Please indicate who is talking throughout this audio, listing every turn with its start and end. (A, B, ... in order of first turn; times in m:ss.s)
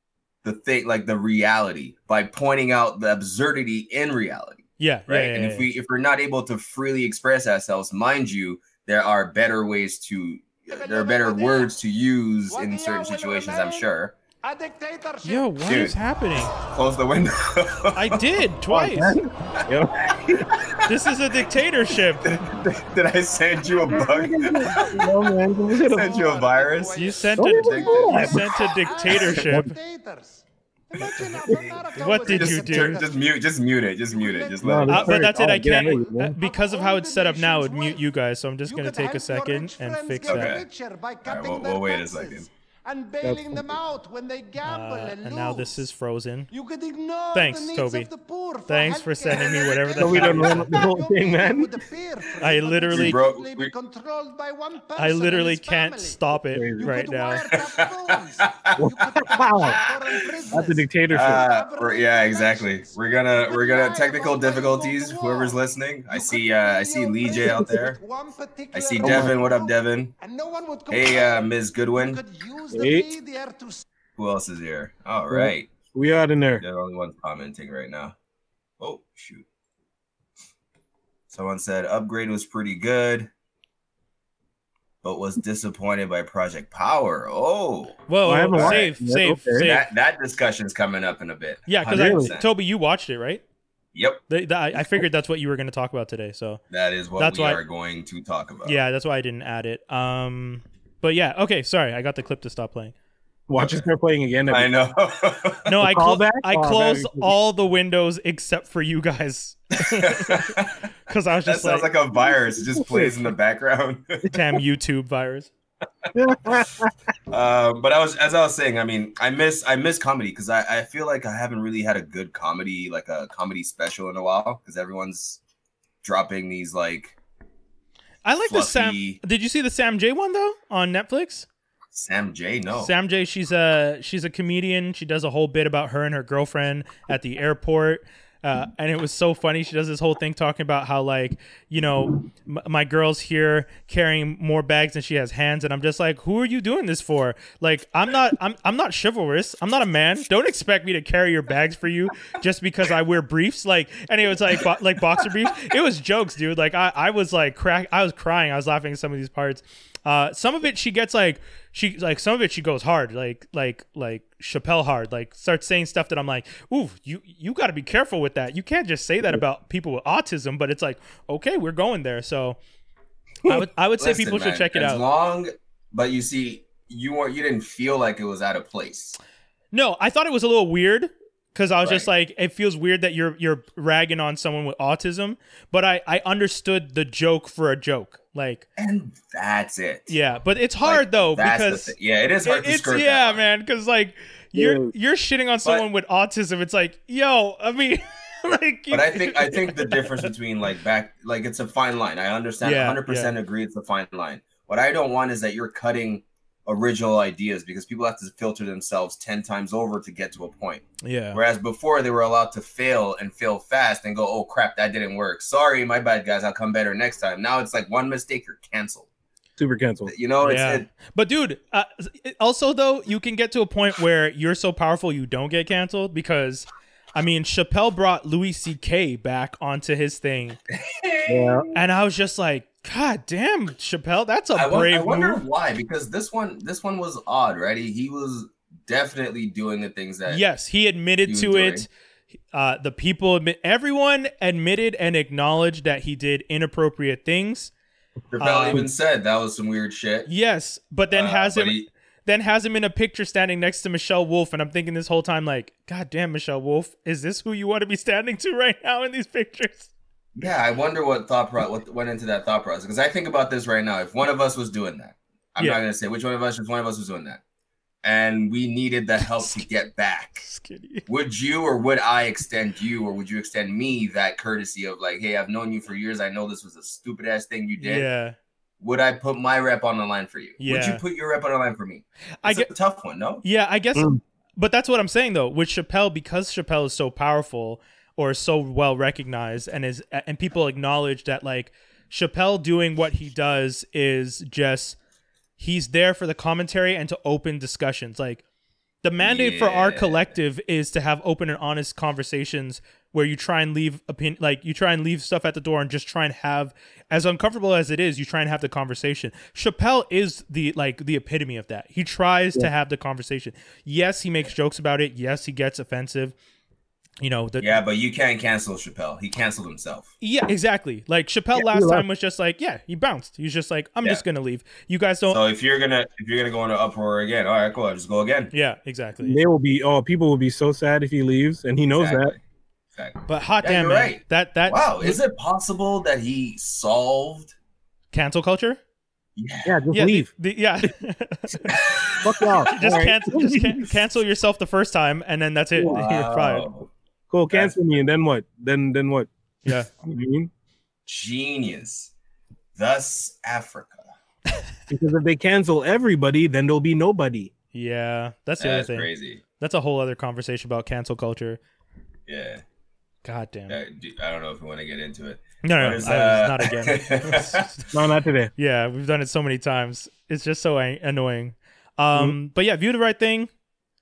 0:00.4-0:14.1 A
0:04.8-0:05.7 B
0:10.7-0:11.7 C
0:12.5-0:13.9 C
0:14.4-0:15.5 C
0:15.2-0:16.5 B
0:15.7-0:16.0 A
0:16.5-0:18.2 A
0:18.0-0:19.2 B
0:18.7-0:20.6 D
0:20.6-0:21.0 A
0:20.9-0:22.4 B
0:22.2-0:24.9 A
0:23.9-0:26.2 D
0:25.8-0:28.4 A
0:25.9-0:33.2 C
0:27.0-0:29.7 B
0:27.4-0:28.5 D
0:29.4-0:29.7 D
0:32.0-0:33.0 B
0:32.1-0:35.3 A
0:34.1-0:34.9 C
0:34.6-0:36.4 D
0:34.9-0:40.5 B
0:36.4-0:38.0 C
0:38.7-0:45.8 C
0:40.3-0:40.6 A
0:41.2-0:42.5 A
0:43.2-0:43.8 D
0:44.6-0:46.5 B
0:46.5-0:56.2 C
0:47.3-0:48.1 B
0:48.7-0:50.7 B
0:50.0-0:51.7 D
0:52.4-0:53.2 B
0:52.9-0:53.7 A
0:55.0-0:57.5 B
0:56.5-0:56.9 D
0:56.8-1:05.6 C
0:57.5-1:00.1 A
0:58.8-0:59.8 D
1:00.5-1:01.5 D
1:01.1-1:08.0 A
1:06.1-1:13.8 C
1:07.4-1:07.8 D
1:08.7-1:10.1 A
1:09.0-1:09.4 D
1:10.9-1:12.2 A
1:12.7-1:13.1 D
1:14.2-1:15.7 A
1:15.3-1:16.6 D
1:16.6-1:18.2 A
1:18.8-1:19.4 A
1:21.3-1:23.3 A
1:25.0-1:28.0 A
1:28.1-1:29.9 B
1:28.2-1:29.8 D
1:28.5-1:28.9 A
1:29.6-1:32.5 A
1:31.7-1:33.4 B
1:31.8-1:32.3 D
1:34.0-1:34.2 A
1:34.3-1:36.6 B
1:36.7-1:38.8 A
1:37.2-1:37.6 B
1:38.6-1:42.9 B
1:43.5-1:44.7 D
1:44.5-1:45.8 A
1:45.7-1:51.9 B
1:45.8-1:47.3 D
1:49.8-1:50.9 A
1:51.4-1:54.3 A
1:52.3-1:53.2 D
1:54.3-1:55.5 B
1:56.1-1:56.9 D
1:57.3-2:05.4 A
2:06.0-2:07.2 A
2:08.2-2:11.5 B
2:08.5-2:09.2 A
2:11.9-2:12.9 A
2:12.7-2:52.6 B
2:53.4-2:55.0 B
2:54.0-2:59.2 A
2:59.7-3:08.7 B
3:01.8-3:02.1 A
3:08.8-3:10.2 A
3:10.1-3:20.3 B
3:10.8-3:13.4 A
3:14.6-3:14.9 D
3:18.9-3:39.1 A
3:22.6-3:23.3 B
3:31.0-3:31.4 B
3:39.6-3:40.1 D
3:40.1-3:40.9 A
3:40.4-3:50.6 B
3:50.7-3:51.8 A
3:51.3-3:51.7 D
3:51.7-3:55.4 B
3:54.6-4:00.4 A
4:00.3-4:01.9 B
4:01.3-4:01.9 A
4:02.5-4:07.7 B
4:08.3-4:10.3 A
4:08.4-4:08.9 B
4:10.3-4:19.9 B
4:11.1-4:11.9 A
4:20.4-4:27.4 A
4:28.0-4:30.5 A
4:29.2-4:29.6 B
4:30.4-4:31.1 B
4:31.1-4:38.1 A
4:37.8-4:38.4 B
4:38.8-4:43.4 A
4:40.6-4:41.0 B
4:42.4-4:42.7 B
4:43.4-4:55.0 B
4:44.0-4:44.2 D
4:55.6-4:58.4 B
4:59.0-5:16.4 B
4:59.2-5:00.2 A
5:17.2-5:17.8 B
5:17.6-5:20.1 A
5:20.2-5:25.4 B
5:21.6-5:22.1 D
5:25.3-5:28.5 A
5:28.5-5:29.4 B
5:29.2-5:32.3 D
5:32.0-5:32.4 A
5:33.0-5:37.6 A
5:33.3-5:35.2 B
5:38.1-5:38.8 B
5:39.4-5:39.8 A
5:39.6-5:40.3 D
5:39.9-5:41.8 B
5:41.6-5:43.2 A
5:42.2-5:43.8 D
5:42.7-5:46.7 B
5:45.8-5:46.0 D
5:45.9-5:46.9 A
5:47.3-5:50.5 D
5:49.6-5:49.9 B
5:51.1-5:52.1 A
5:52.8-5:54.1 A
5:54.9-5:57.5 D
5:57.7-6:01.6 B
5:58.6-5:59.4 A
6:02.3-6:02.6 A
6:03.2-6:03.8 B
6:03.7-6:07.7 A
6:05.6-6:07.9 B
6:07.9-6:08.5 D
6:08.6-6:13.5 B